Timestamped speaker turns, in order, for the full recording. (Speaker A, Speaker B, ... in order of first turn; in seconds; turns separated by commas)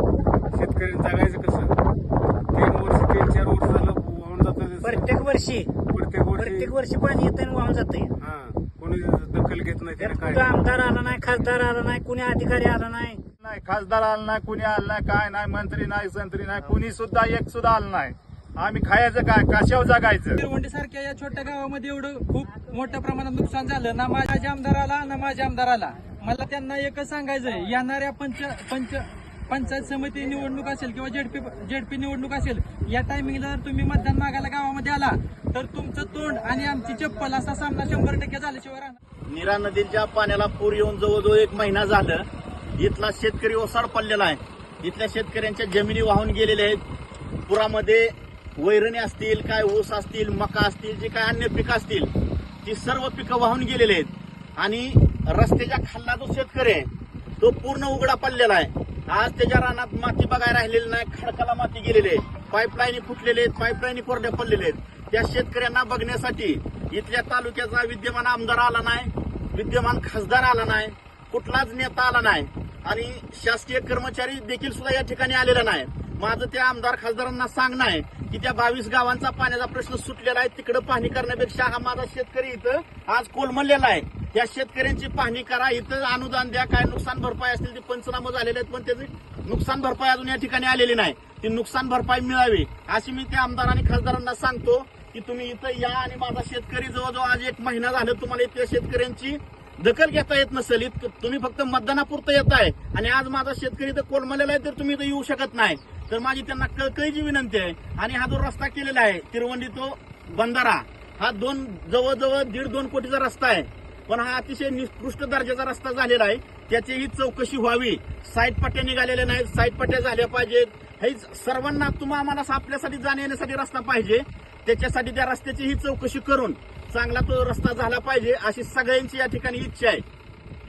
Speaker A: 0.5-1.8, Speaker A: 2.5-5.2, Speaker B: 4.8-5.7, Speaker A: 5.9-6.7, Speaker B: 6.3-8.1, Speaker A: 8.2-10.6, Speaker B: 10.0-13.2, Speaker C: 13.4-20.4, Speaker D: 20.4-39.0, Speaker E: 39.3-42.2, Speaker E: 42.8-46.8, Speaker E: 47.5-52.1, Speaker E: 52.6-56.9, Speaker E: 57.4-130.0